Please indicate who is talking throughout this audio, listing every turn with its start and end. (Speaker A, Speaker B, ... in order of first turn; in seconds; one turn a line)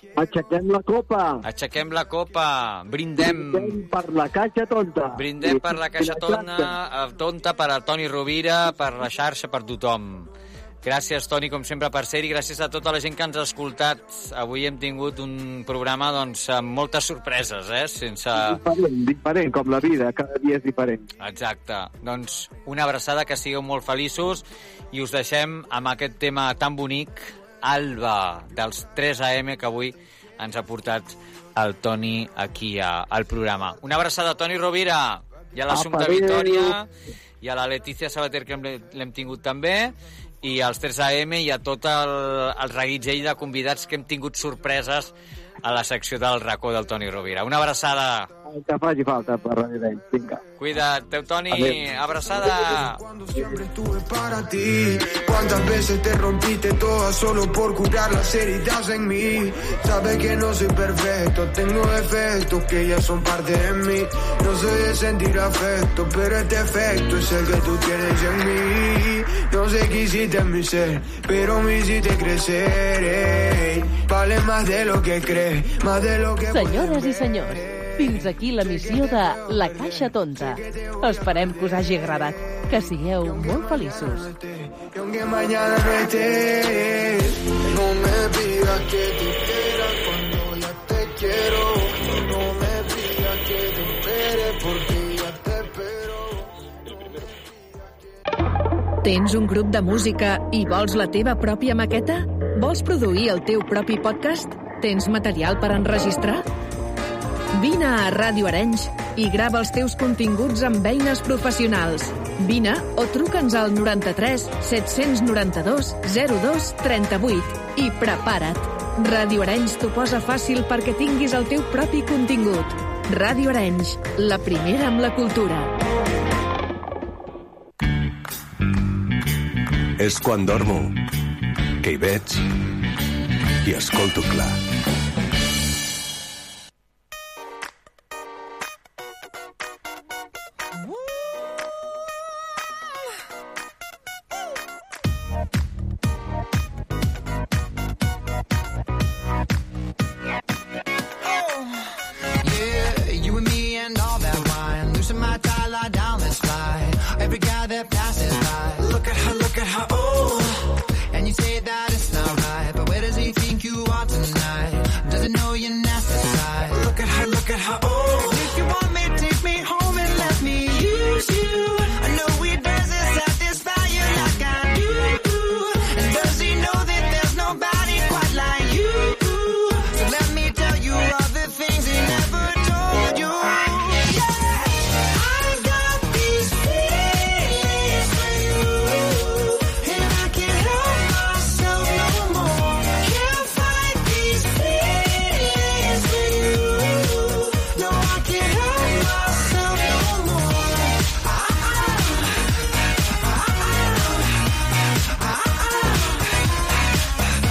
Speaker A: 0.2-1.5
Speaker B: 1.4-3.8
Speaker A: 3.2-6.7
Speaker B: 5.1-10.3
Speaker B: 10.8-18.6
Speaker A: 18.3-21.1
Speaker B: 21.2-36.9
Speaker A: 35.7-36.7
Speaker B: 37.4-48.3
Speaker A: 48.5-50.4
Speaker B: 50.6-53.0
Speaker A: 51.5-51.8
Speaker C: 52.4-77.9
Speaker D: 76.5-84.3
Speaker C: 78.7-81.2
Speaker C: 83.2-96.5
Speaker E: 99.0-106.5
Speaker E: 107.5-125.7
Speaker F: 130.0-131.0
Speaker F: 131.8-132.5
Speaker F: 133.6-134.6
Speaker G: 151.2-202.4
Speaker G: 203.2-206.5